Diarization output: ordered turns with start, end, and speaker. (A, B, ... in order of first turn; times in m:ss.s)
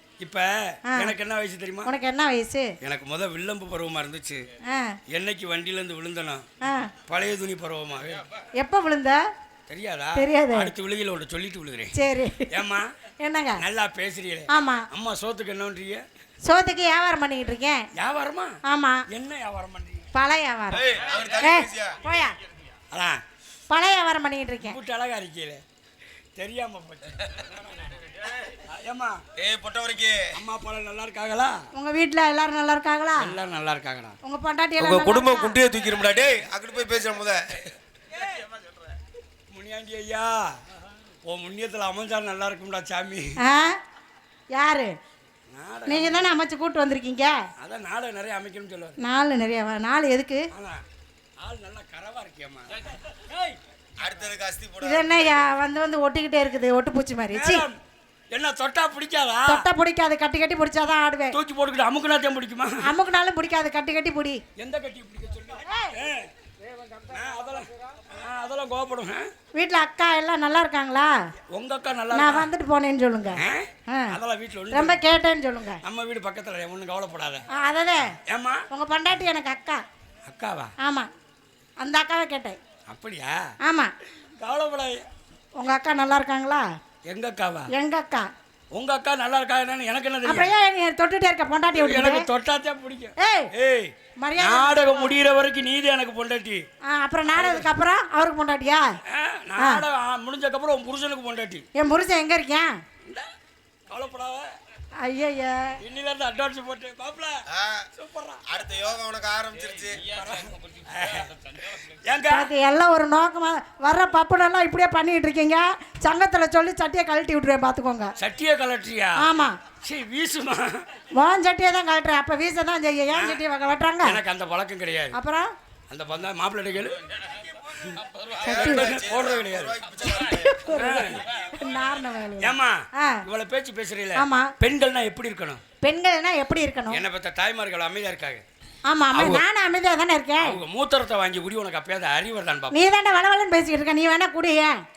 0:00.2-0:01.9 A
0:00.9-0:01.1 B
0:01.8-0:02.7 B
0:02.8-0:04.4 A
0:04.6-0:05.0 B
0:05.1-0:06.4 A
0:06.6-0:06.9 B
0:07.1-0:08.2 A
0:08.6-0:09.2 B
0:09.7-0:11.9 A
0:10.2-0:10.7 B
0:11.9-0:12.5 B
0:12.5-0:12.9 A
0:13.2-0:13.6 B
0:13.6-0:16.0 A
0:14.5-0:14.9 B
0:16.4-0:17.9 B
0:18.0-0:18.6 A
0:18.6-0:19.0 B
0:19.1-0:20.0 A
0:20.1-0:20.8 B
0:20.7-0:22.0 C
0:21.4-0:22.3 B
0:22.9-0:23.2 A
0:23.7-0:24.8 B
0:24.6-0:25.6 A
0:26.4-0:27.9 A
0:28.5-0:29.2 A
0:29.4-0:30.3 C
0:30.3-0:31.6 A
0:31.7-0:33.4 B
0:33.2-0:34.2 A
0:34.2-0:35.6 B
0:34.8-0:37.7 C
0:39.5-0:40.6 A
0:41.2-0:43.4 A
0:43.4-0:43.8 B
0:44.5-0:44.9 B
0:45.5-0:46.3 A
0:45.9-0:47.4 B
0:47.6-0:49.0 A
0:49.0-0:50.4 B
0:50.5-0:50.8 A
0:51.4-0:53.6 A
0:54.0-0:55.4 C
0:54.8-0:57.6 B
0:57.3-0:57.8 A
0:58.3-0:59.6 A
0:59.5-1:01.4 B
1:01.3-1:02.8 A
1:02.8-1:04.4 B
1:04.6-1:06.3 A
1:05.7-1:05.9 B
1:07.1-1:09.3 A
1:09.6-1:11.1 B
1:11.5-1:12.5 A
1:12.1-1:14.2 B
1:13.4-1:15.0 A
1:14.7-1:15.8 B
1:15.8-1:17.4 A
1:17.5-1:18.2 B
1:18.3-1:18.6 A
1:18.7-1:19.8 B
1:20.3-1:20.7 A
1:20.8-1:21.1 B
1:21.8-1:22.6 B
1:22.9-1:23.5 A
1:23.6-1:23.9 B
1:24.4-1:25.1 A
1:25.6-1:26.6 B
1:27.1-1:27.7 A
1:27.7-1:28.3 B
1:28.7-1:30.5 A
1:30.2-1:32.2 B
1:31.7-1:36.6 A
1:33.2-1:33.5 B
1:34.2-1:35.2 B
1:36.8-1:38.9 B
1:37.4-1:37.7 A
1:39.1-1:41.6 A
1:39.6-1:39.8 B
1:41.8-1:42.8 B
1:43.9-1:44.5 A
1:45.0-1:45.8 B
1:45.8-1:47.4 A
1:47.5-1:47.9 C
1:48.0-1:48.4 A
1:48.4-1:50.0 C
1:50.1-1:52.5 A
1:52.3-1:58.1 B
1:58.2-2:00.8 A
1:59.2-1:59.6 B
2:01.2-2:04.2 B
2:03.1-2:03.4 A
2:04.0-2:05.1 A
2:05.1-2:05.5 B
2:05.9-2:07.0 A
2:07.7-2:09.8 A
2:08.3-2:10.7 C
2:08.4-2:08.9 B
2:10.0-2:13.2 B
2:10.7-2:11.2 A
2:12.4-2:15.6 A
2:14.2-2:14.5 B
2:15.8-2:17.0 B
2:16.9-2:18.4 A
2:18.9-2:20.6 B
2:19.1-2:19.4 A
2:20.4-2:22.8 A
2:22.7-2:24.8 B